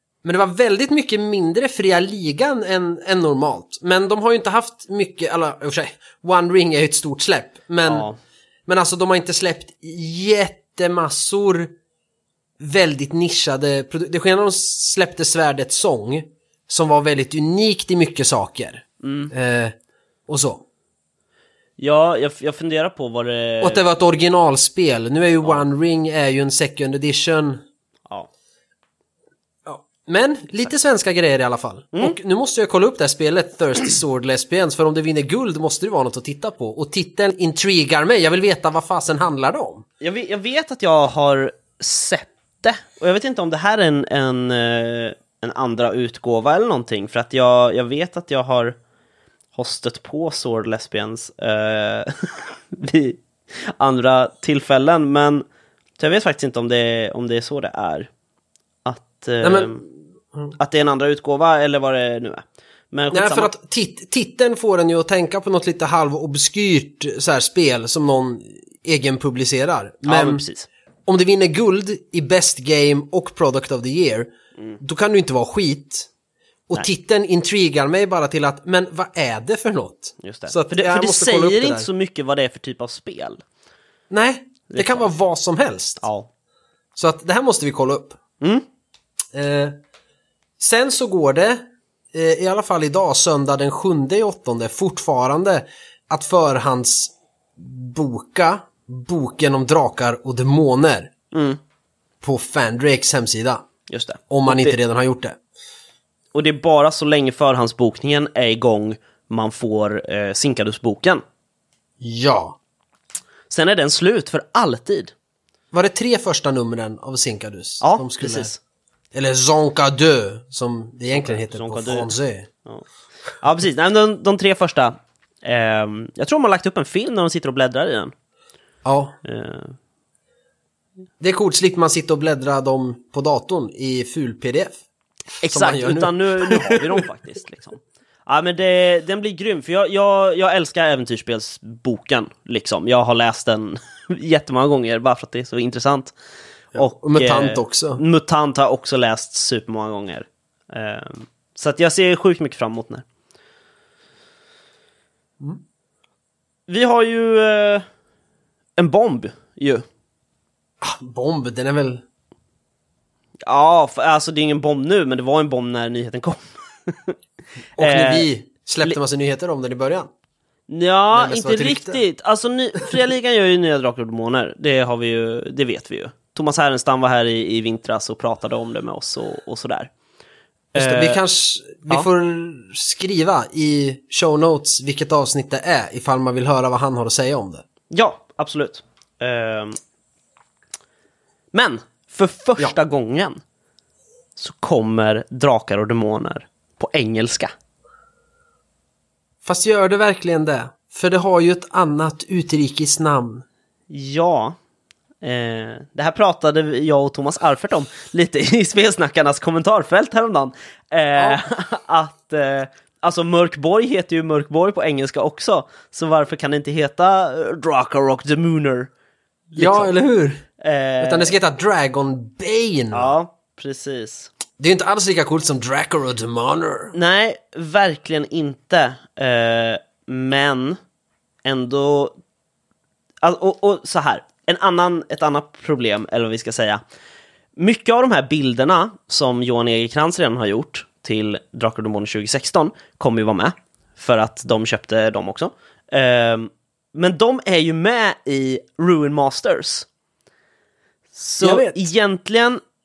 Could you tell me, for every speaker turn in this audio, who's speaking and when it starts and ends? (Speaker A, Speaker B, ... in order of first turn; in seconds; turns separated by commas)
Speaker A: 0.2-8.1, Speaker B: 7.9-8.2, Speaker A: 8.7-11.7, Speaker A: 12.6-19.8, Speaker B: 19.0-19.3, Speaker A: 20.3-20.6, Speaker B: 21.8-23.9, Speaker A: 23.6-27.6, Speaker A: 29.6-39.9, Speaker B: 40.0-48.8, Speaker B: 49.5-55.5, Speaker B: 56.0-58.1, Speaker B: 58.9-59.8, Speaker A: 59.4-59.8, Speaker B: 60.6-63.5, Speaker A: 63.1-70.4, Speaker B: 70.0-70.7, Speaker A: 71.1-76.1, Speaker A: 76.7-81.9, Speaker B: 80.2-83.4, Speaker A: 84.1-86.0, Speaker B: 84.7-85.1, Speaker B: 86.0-86.3, Speaker A: 87.0-88.2, Speaker A: 89.3-89.8, Speaker A: 90.6-101.1, Speaker B: 101.3-101.6, Speaker A: 102.2-103.6, Speaker B: 103.9-104.8, Speaker A: 104.3-105.4, Speaker B: 106.3-111.2, Speaker A: 112.0-112.6, Speaker B: 113.5-115.1, Speaker A: 115.7-118.5, Speaker B: 117.8-118.6, Speaker A: 119.1-122.5, Speaker B: 121.1-122.1, Speaker B: 123.4-128.1, Speaker A: 128.8-129.2, Speaker B: 129.2-129.8, Speaker A: 131.2-134.8, Speaker B: 135.4-146.2, Speaker A: 135.4-137.0, Speaker A: 146.8-148.0, Speaker B: 146.8-153.1, Speaker B: 156.7-157.9, Speaker B: 158.8-159.8, Speaker A: 160.8-162.0, Speaker B: 163.5-167.2, Speaker B: 167.8-168.3, Speaker A: 167.8-170.1, Speaker B: 170.7-179.9, Speaker A: 171.1-172.0, Speaker B: 180.7-181.2, Speaker A: 180.8-187.7, Speaker B: 187.9-189.8, Speaker B: 191.5-193.4, Speaker B: 194.4-197.5, Speaker A: 199.4-203.4, Speaker B: 203.9-204.6, Speaker B: 205.2-218.9, Speaker A: 211.2-211.4, Speaker B: 219.5-219.9, Speaker A: 219.6-220.4, Speaker B: 220.6-221.4, Speaker A: 221.0-223.1, Speaker B: 222.9-224.3, Speaker A: 224.6-226.9, Speaker B: 226.9-230.8, Speaker B: 231.4-232.2, Speaker B: 233.2-236.8, Speaker B: 237.6-249.9, Speaker B: 251.2-252.6, Speaker A: 251.4-251.9